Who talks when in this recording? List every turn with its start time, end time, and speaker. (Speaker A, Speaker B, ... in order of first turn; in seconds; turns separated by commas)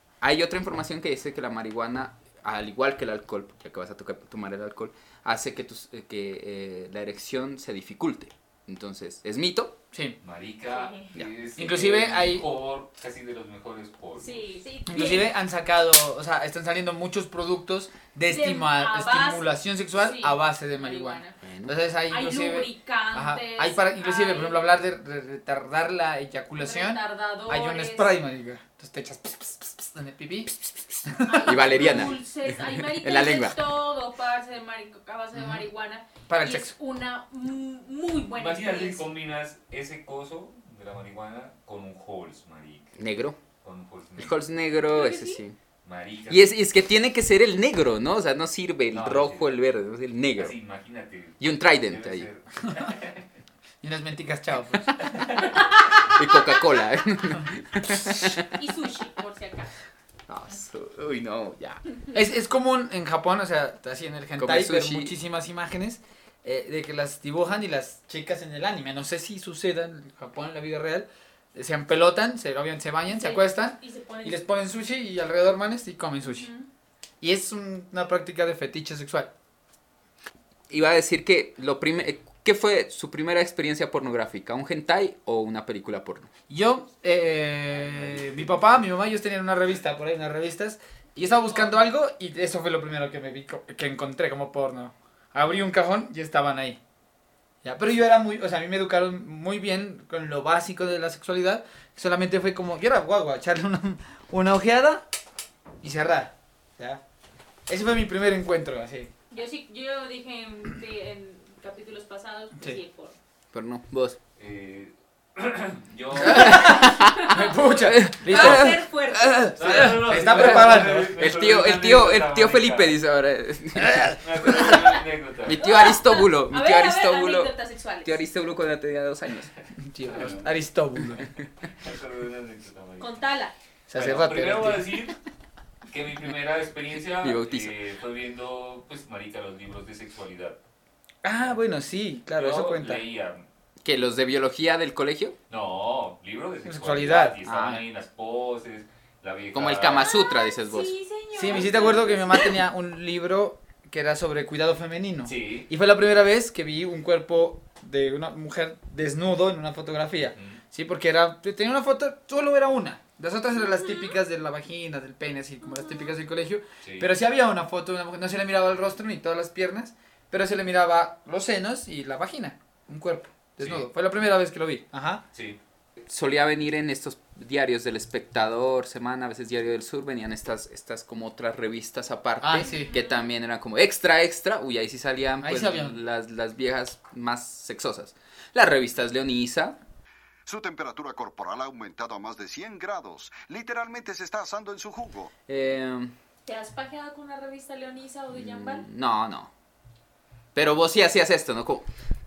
Speaker A: 0.2-9.8, Speaker B: 9.9-10.2, Speaker C: 10.2-14.4, Speaker D: 10.7-11.1, Speaker B: 11.6-12.5, Speaker D: 14.2-15.3, Speaker B: 14.9-32.1, Speaker D: 18.3-21.4, Speaker A: 21.4-21.8, Speaker D: 22.1-24.7, Speaker D: 26.6-28.2, Speaker D: 31.3-39.0, Speaker A: 31.4-33.6, Speaker B: 35.3-35.6, Speaker B: 36.3-36.7, Speaker C: 38.4-42.9, Speaker A: 43.0-43.4, Speaker C: 43.6-44.4, Speaker A: 44.2-45.6, Speaker D: 44.8-45.4, Speaker C: 45.8-46.5, Speaker A: 46.3-50.5, Speaker C: 48.9-49.6, Speaker C: 50.4-53.2, Speaker A: 51.4-52.3, Speaker B: 53.8-55.0, Speaker C: 55.1-55.4, Speaker D: 55.5-56.6, Speaker A: 56.0-58.5, Speaker D: 58.5-59.7, Speaker A: 60.3-61.8, Speaker B: 62.1-76.5, Speaker A: 64.4-65.2, Speaker D: 73.1-74.5, Speaker D: 76.3-76.7, Speaker B: 77.2-79.3, Speaker A: 80.7-86.3, Speaker B: 86.5-96.8, Speaker C: 87.8-88.6, Speaker D: 91.3-91.9, Speaker B: 97.6-105.0, Speaker B: 105.8-107.0, Speaker B: 107.7-109.1, Speaker D: 109.3-113.2, Speaker A: 113.5-114.2, Speaker C: 114.4-116.9, Speaker A: 116.2-124.9, Speaker B: 116.2-118.8, Speaker D: 116.5-117.4, Speaker D: 118.3-119.5, Speaker B: 119.4-121.3, Speaker C: 119.6-123.0, Speaker B: 123.9-124.1, Speaker C: 124.2-125.6, Speaker A: 125.5-129.5, Speaker D: 125.6-128.2, Speaker B: 129.9-131.3, Speaker C: 130.1-130.6, Speaker C: 131.8-133.2, Speaker D: 133.0-133.6, Speaker B: 133.9-134.9, Speaker C: 133.9-135.2, Speaker C: 135.9-140.6, Speaker A: 137.2-137.8, Speaker B: 141.2-143.0, Speaker C: 142.3-143.4, Speaker A: 143.8-145.4, Speaker C: 145.5-150.1, Speaker B: 146.7-147.4, Speaker A: 147.4-147.8, Speaker A: 149.5-150.9, Speaker D: 149.9-152.5, Speaker B: 151.3-175.2, Speaker C: 155.3-155.7, Speaker C: 160.4-160.6, Speaker C: 166.8-167.1, Speaker C: 173.6-173.9, Speaker A: 176.0-189.8, Speaker B: 182.4-182.9, Speaker D: 182.6-183.2, Speaker B: 185.4-186.0, Speaker E: 190.5-195.3, Speaker A: 195.5-196.1, Speaker D: 196.4-198.9, Speaker A: 198.3-199.5, Speaker A: 200.6-201.9